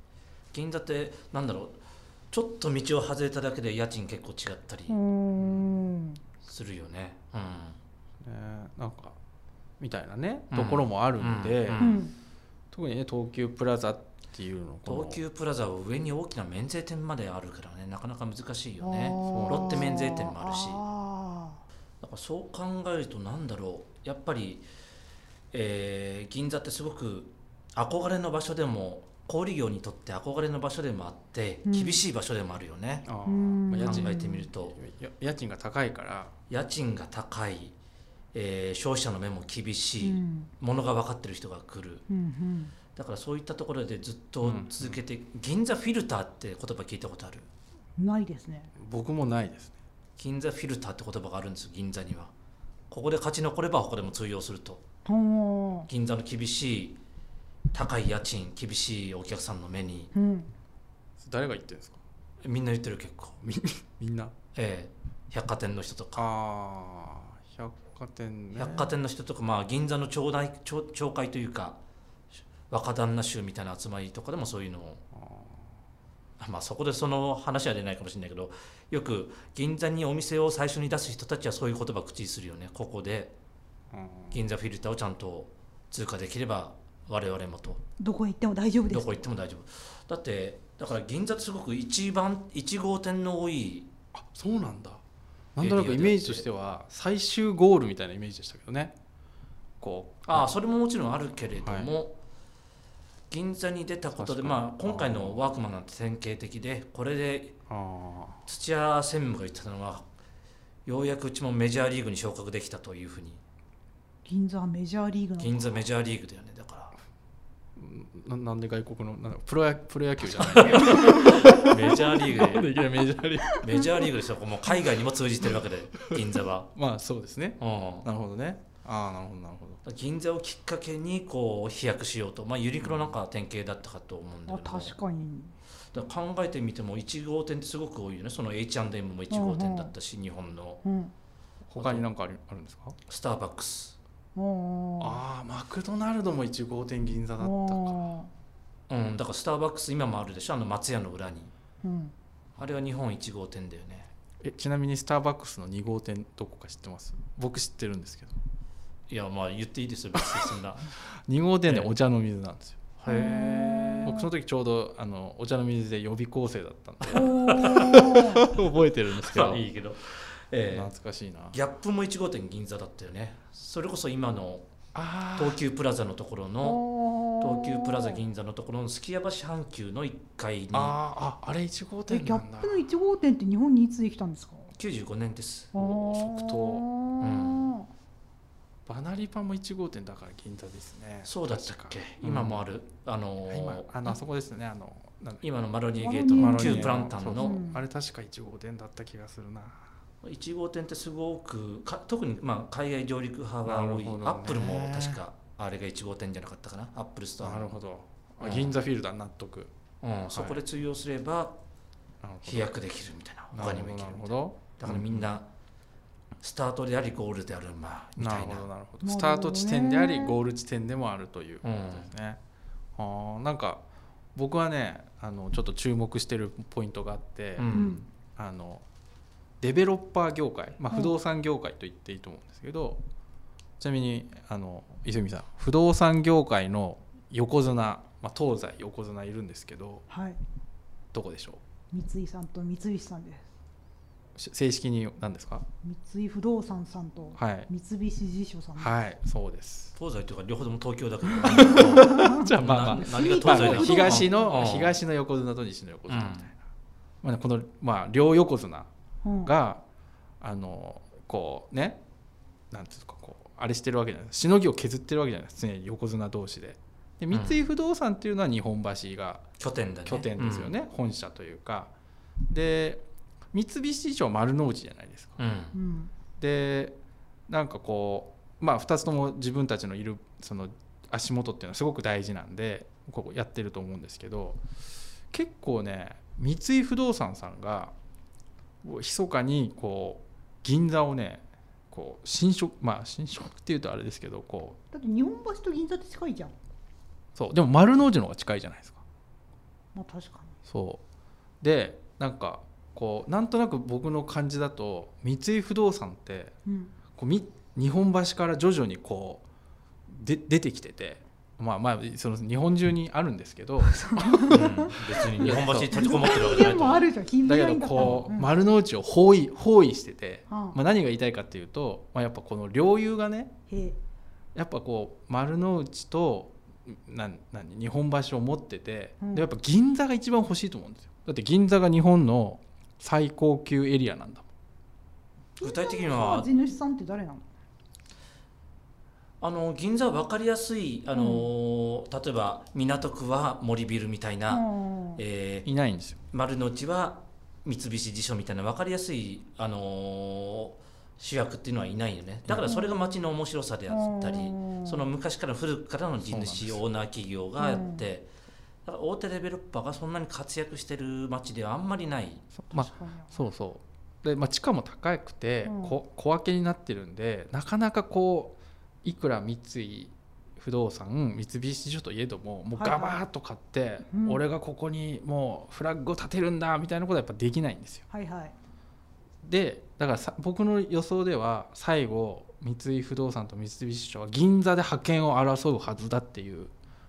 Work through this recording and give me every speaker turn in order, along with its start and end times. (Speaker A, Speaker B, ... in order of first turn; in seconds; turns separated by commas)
Speaker A: 0.5-5.0, Speaker B: 4.9-6.2, Speaker A: 6.4-7.8, Speaker C: 8.2-9.2, Speaker C: 9.8-11.9, Speaker A: 10.5-12.0, Speaker B: 11.8-12.1, Speaker C: 12.7-15.2, Speaker A: 14.8-20.8, Speaker B: 18.8-21.6, Speaker C: 19.2-19.9, Speaker A: 22.0-24.7, Speaker A: 25.5-33.1, Speaker B: 31.6-32.0, Speaker C: 33.0-36.3, Speaker B: 33.2-34.4, Speaker A: 33.8-34.8, Speaker A: 36.5-37.8, Speaker A: 38.3-42.0, Speaker B: 40.0-40.5, Speaker B: 42.1-42.7, Speaker A: 42.9-47.5, Speaker C: 44.4-45.0, Speaker B: 48.0-48.7, Speaker C: 48.8-49.7, Speaker A: 50.2-52.3, Speaker A: 52.9-54.8, Speaker B: 55.0-55.9, Speaker A: 55.9-57.0, Speaker A: 57.7-60.1, Speaker B: 60.1-60.5, Speaker C: 61.2-62.0, Speaker A: 62.4-63.4, Speaker C: 63.4-64.3, Speaker A: 64.5-66.3, Speaker C: 66.2-68.9, Speaker A: 68.5-71.8, Speaker A: 72.7-75.0, Speaker C: 75.1-75.7, Speaker A: 76.4-83.3, Speaker C: 83.9-84.5, Speaker A: 84.3-87.8, Speaker B: 88.0-89.2, Speaker A: 88.9-93.9, Speaker C: 94.1-95.0, Speaker C: 95.5-98.9, Speaker A: 95.6-96.5, Speaker C: 99.8-100.5, Speaker A: 100.2-102.2, Speaker C: 101.6-101.9, Speaker A: 103.3-107.6, Speaker C: 104.2-105.4, Speaker C: 107.7-108.4, Speaker A: 108.5-110.1, Speaker A: 110.8-113.4, Speaker B: 114.2-115.8, Speaker A: 115.4-116.9, Speaker C: 117.8-123.7, Speaker A: 120.3-122.8, Speaker B: 123.5-123.9, Speaker A: 123.5-126.7, Speaker C: 126.7-129.8, Speaker A: 127.6-128.1, Speaker A: 129.8-134.9, Speaker B: 134.5-135.5, Speaker A: 135.9-140.8, Speaker B: 139.3-139.9, Speaker B: 140.8-141.1, Speaker C: 141.7-143.0, Speaker A: 141.8-142.1, Speaker A: 143.1-144.0, Speaker B: 144.3-145.2, Speaker C: 145.0-148.1, Speaker B: 147.4-148.3, Speaker A: 148.9-151.5, Speaker B: 151.8-152.1, Speaker A: 152.6-154.1, Speaker C: 154.4-158.4, Speaker A: 159.1-160.9, Speaker C: 160.2-160.6, Speaker C: 161.3-169.7, Speaker A: 161.7-161.9, Speaker A: 163.0-164.1, Speaker B: 163.1-164.3, Speaker A: 167.0-168.2, Speaker B: 167.1-168.4, Speaker A: 169.2-170.9, Speaker C: 170.7-171.6, Speaker A: 171.5-174.7, Speaker C: 174.9-175.6, Speaker A: 175.3-176.8, Speaker B: 176.6-178.2, Speaker A: 177.4-180.9, Speaker C: 180.7-182.9, Speaker B: 182.1-184.7, Speaker A: 184.7-185.7, Speaker B: 185.7-187.9, Speaker C: 185.7-186.8, Speaker A: 187.2-187.7, Speaker C: 188.8-192.6, Speaker A: 191.2-194.2, Speaker C: 193.5-195.4, Speaker A: 195.4-197.6, Speaker B: 196.0-197.8, Speaker C: 196.3-199.8, Speaker A: 200.2-207.7, Speaker C: 203.6-205.2, Speaker C: 207.4-209.7, Speaker A: 208.4-208.8, Speaker A: 210.0-211.6, Speaker C: 210.3-210.6, Speaker C: 212.2-212.7, Speaker A: 212.4-215.5, Speaker C: 213.5-215.3, Speaker A: 216.4-218.7, Speaker C: 218.2-222.4, Speaker B: 219.0-220.3, Speaker A: 221.6-222.1, Speaker C: 223.0-223.8, Speaker C: 224.3-228.8, Speaker A: 227.6-228.0, Speaker B: 227.7-228.0, Speaker C: 229.6-233.0, Speaker C: 233.8-240.0, Speaker B: 240.1-240.4, Speaker C: 241.1-241.6, Speaker B: 241.9-243.5, Speaker C: 244.3-245.7, Speaker B: 245.8-248.9, Speaker C: 247.3-247.7, Speaker C: 248.8-249.9, Speaker A: 249.9-255.0, Speaker B: 251.3-254.6, Speaker C: 251.6-256.6, Speaker A: 256.1-256.5, Speaker C: 257.2-258.9, Speaker B: 259.2-259.5, Speaker C: 259.4-259.8, Speaker C: 260.4-262.0, Speaker C: 262.7-269.4, Speaker A: 267.3-267.7, Speaker A: 269.6-270.7, Speaker C: 270.0-271.9, Speaker C: 272.5-275.4, Speaker A: 275.4-275.8, Speaker B: 275.7-276.1, Speaker C: 276.4-277.0, Speaker C: 277.5-284.6, Speaker C: 285.3-287.9, Speaker C: 288.8-294.8, Speaker B: 294.9-296.5, Speaker C: 297.3-299.0, Speaker B: 299.9-300.5, Speaker C: 300.6-301.0, Speaker C: 301.6-306.6, Speaker B: 306.6-306.9, Speaker C: 307.1-309.4, Speaker C: 310.1-316.0, Speaker B: 313.9-318.5, Speaker A: 314.5-317.1, Speaker C: 317.4-323.5, Speaker A: 318.0-318.3, Speaker B: 320.5-320.8, Speaker B: 323.7-324.0, Speaker C: 324.5-334.4, Speaker B: 329.2-329.5, Speaker B: 335.6-337.4, Speaker A: 335.6-336.5, Speaker A: 339.4-344.6, Speaker B: 341.1-341.4, Speaker B: 344.5-345.2, Speaker A: 345.1-345.7, Speaker C: 345.6-346.2, Speaker A: 346.3-358.3, Speaker B: 352.6-353.1, Speaker B: 353.9-355.1, Speaker C: 356.2-356.8, Speaker B: 357.6-358.0, Speaker A: 358.8-362.5, Speaker C: 362.5-378.0, Speaker B: 362.7-363.4, Speaker B: 365.6-365.9, Speaker B: 372.7-373.2, Speaker B: 374.1-374.4, Speaker B: 378.1-378.5, Speaker C: 379.4-386.7